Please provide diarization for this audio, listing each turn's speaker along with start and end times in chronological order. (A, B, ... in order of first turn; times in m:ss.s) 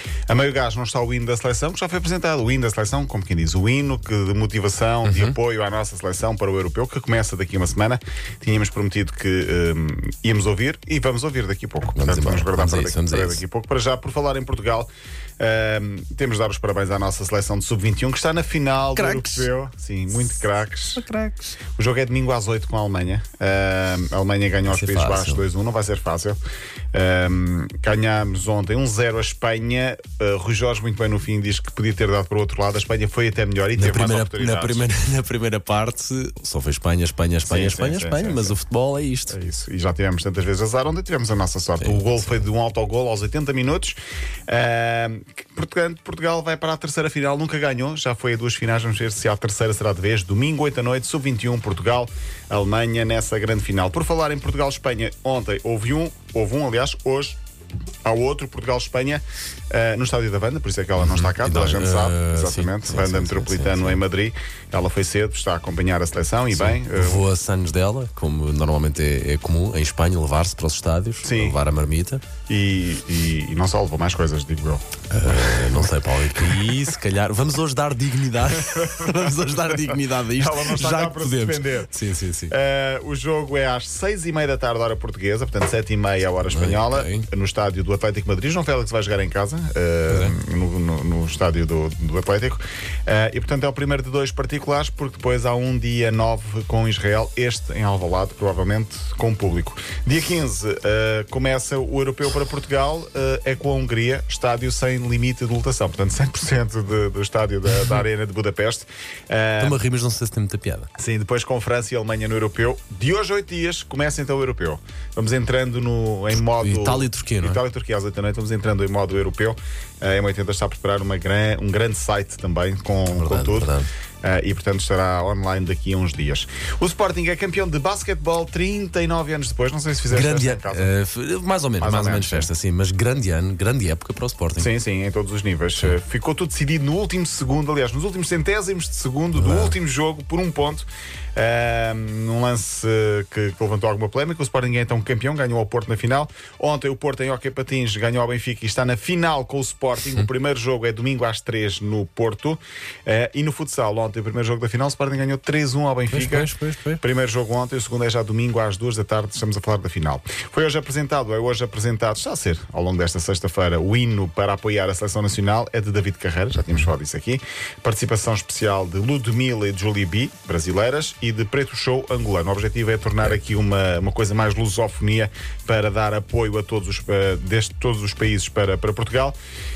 0:00.3-0:14.9 A
0:05.0-0:05.4 B
0:11.9-0:13.4 B
0:15.4-0:21.1 A
0:18.9-0:19.5 B
0:20.9-0:21.6 B
0:21.6-0:26.4 A
0:24.6-0:25.4 B
0:26.9-0:34.9 A
0:33.7-0:39.4 B
0:37.4-0:38.6 A
0:39.3-0:57.4 A
0:41.8-0:42.5 B
0:58.0-1:07.3 A
1:01.0-1:04.0 B
1:06.5-1:12.3 B
1:11.2-1:11.6 A
1:12.4-1:15.0 A
1:15.0-1:22.5 B
1:15.5-1:15.8 A
1:18.6-1:21.9 A
1:22.5-1:49.8 A
1:26.4-1:27.3 B
1:30.1-1:30.4 B
1:49.6-1:50.9 B
1:51.0-2:10.9 A
1:56.3-1:57.6 B
2:03.1-2:03.9 B
2:10.1-2:14.7 B
2:11.8-2:12.5 A
2:14.6-2:59.4 A
2:19.3-2:19.8 B
2:36.1-2:37.0 B
2:46.6-2:46.9 B